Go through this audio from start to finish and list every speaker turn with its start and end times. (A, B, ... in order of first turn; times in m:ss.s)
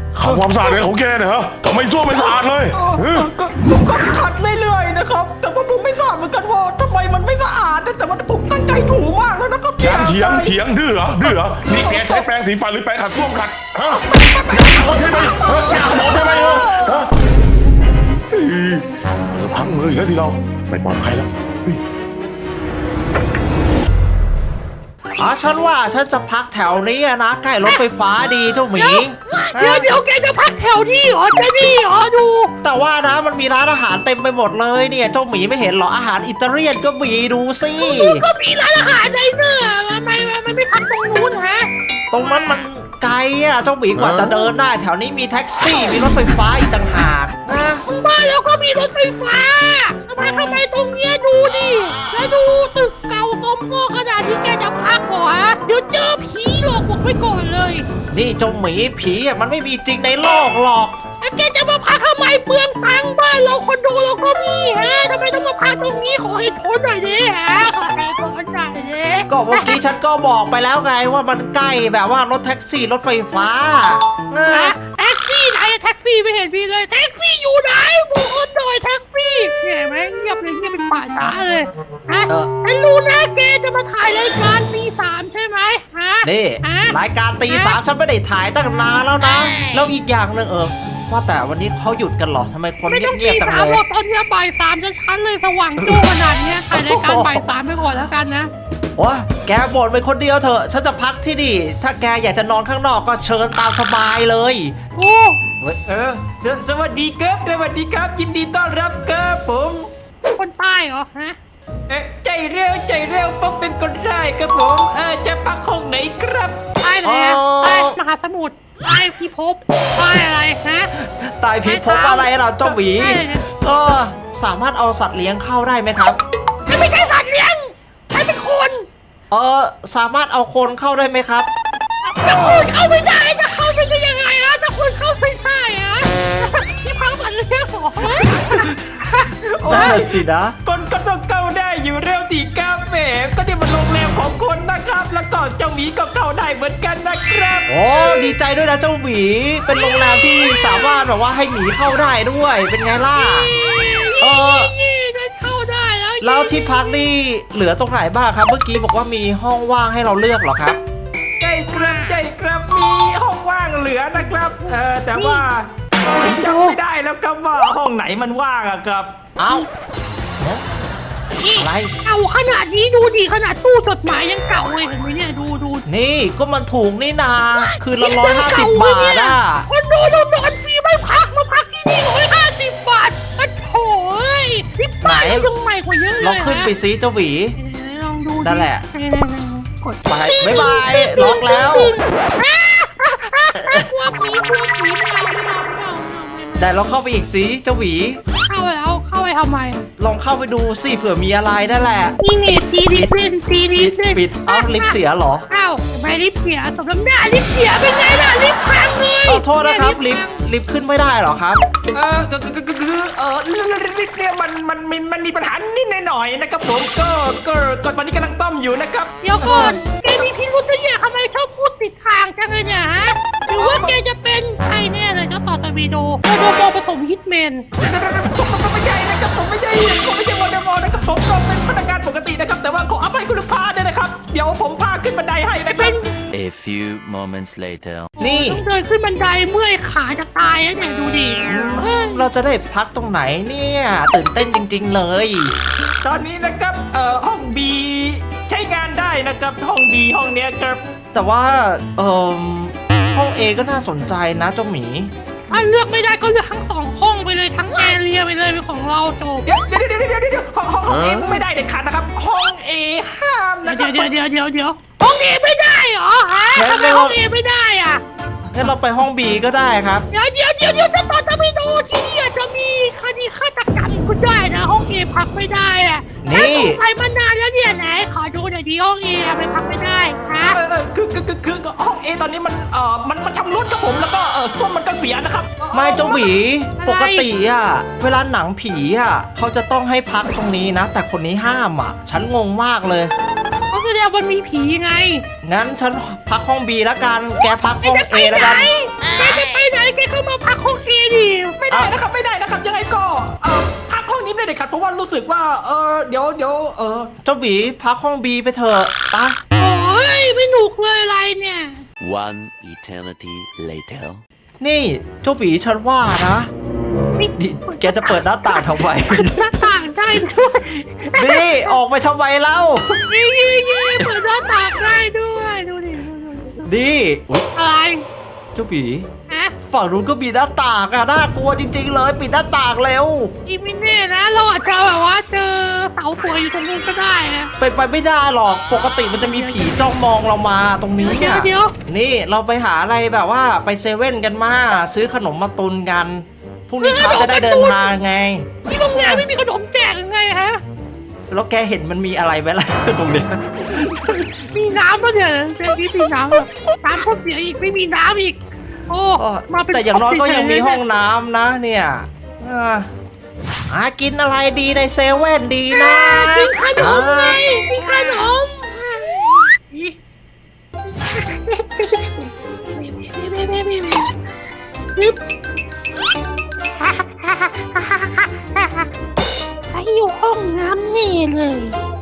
0:00.1-0:03.3 A
0:00.2-0:00.8 B
0:02.1-0:10.6 B
0:09.8-0:17.1 A
0:11.2-0:12.3 B
0:13.9-0:17.1 B
0:18.3-0:21.8 A
0:25.2-0:29.9 C
0:28.7-0:32.5 D
0:32.6-0:38.2 C
0:37.8-0:41.7 D
0:42.1-0:47.8 C
0:47.8-0:57.8 D
0:50.2-0:50.6 C
0:58.1-1:01.0 C
1:01.2-1:09.7 D
1:09.3-1:14.7 C
1:14.5-1:27.0 D
1:26.2-1:33.8 C
1:27.5-1:27.8 D
1:32.8-1:38.5 D
1:35.8-1:36.1 C
1:36.7-1:37.4 C
1:39.0-1:44.8 C
1:45.0-1:45.4 D
1:45.9-1:49.9 B
1:50.3-1:51.4 D
1:51.9-1:56.6 B
1:56.8-2:00.9 D
1:57.0-1:58.0 C
2:00.9-2:06.2 C
2:01.6-2:03.4 D
2:06.7-2:08.8 D
2:09.3-2:11.5 C
2:12.0-2:19.9 D
2:12.2-2:12.7 B
2:18.0-2:27.7 B
2:19.6-2:20.6 C
2:27.7-2:33.5 C
2:27.9-2:28.3 D
2:29.7-2:31.0 D
2:33.1-2:37.1 D
2:34.2-2:34.7 C
2:36.2-2:40.8 C
2:41.4-2:49.1 B
2:44.6-2:45.4 D
2:46.2-2:46.8 D
2:49.4-2:49.7 C
2:50.4-2:50.6 C
2:51.4-2:55.8 D
2:51.6-2:51.9 C
2:55.9-2:59.6 C
2:57.5-3:06.7 D
3:05.0-3:05.5 C
3:06.2-3:07.6 C
3:07.6-3:16.8 D
3:08.4-3:08.8 C
3:10.1-3:11.9 C
3:13.6-3:13.9 C
3:16.6-3:18.2 C
3:18.4-3:19.8 D
3:20.0-3:22.2 C
3:22.2-3:25.0 D
3:22.9-3:23.1 C
3:23.8-3:25.4 C
3:25.5-3:30.3 D
3:29.2-3:31.6 C
3:31.9-3:39.1 B
3:39.2-3:47.6 D
3:39.4-3:39.8 C
3:43.5-3:44.0 B
3:47.8-3:56.1 B
3:55.7-3:56.0 D
3:56.3-3:58.1 E
3:58.2-4:02.3 D
3:58.2-3:58.6 C
4:01.4-4:05.5 C
4:06.0-4:10.8 B
4:11.1-4:15.1 C
4:15.5-4:19.5 D
4:19.4-4:24.1 B
4:23.6-4:28.0 D
4:26.5-4:27.2 C
4:28.5-4:30.1 C
4:30.1-4:40.6 D
4:36.2-4:36.8 C
4:40.4-4:46.3 B
4:45.7-4:53.1 C
4:46.8-4:47.3 D
4:53.7-4:55.2 D
4:55.4-4:58.7 C
4:57.8-5:01.6 D
5:01.6-5:07.1 B
5:07.2-5:09.4 C
5:09.5-5:11.8 D
5:12.0-5:14.2 E
5:14.6-5:16.5 C
5:17.2-5:21.8 D
5:17.4-5:19.7 C
5:21.1-5:23.0 C
5:23.1-5:26.6 D
5:26.7-5:27.5 C
5:27.5-5:28.0 D
5:28.5-5:29.1 C
5:29.3-5:29.5 D
5:29.6-5:33.3 C
5:33.4-5:37.5 D
5:37.6-5:49.2 C
5:39.2-5:39.8 D
5:41.0-5:41.7 D
5:46.8-5:47.8 D
5:48.7-5:50.6 D
5:51.3-5:54.3 C
5:54.4-6:00.8 D
5:59.2-6:02.9 C
6:03.7-6:07.4 C
6:05.7-6:09.9 D
6:10.9-6:14.1 D
6:16.8-6:18.8 D
6:19.6-6:21.8 D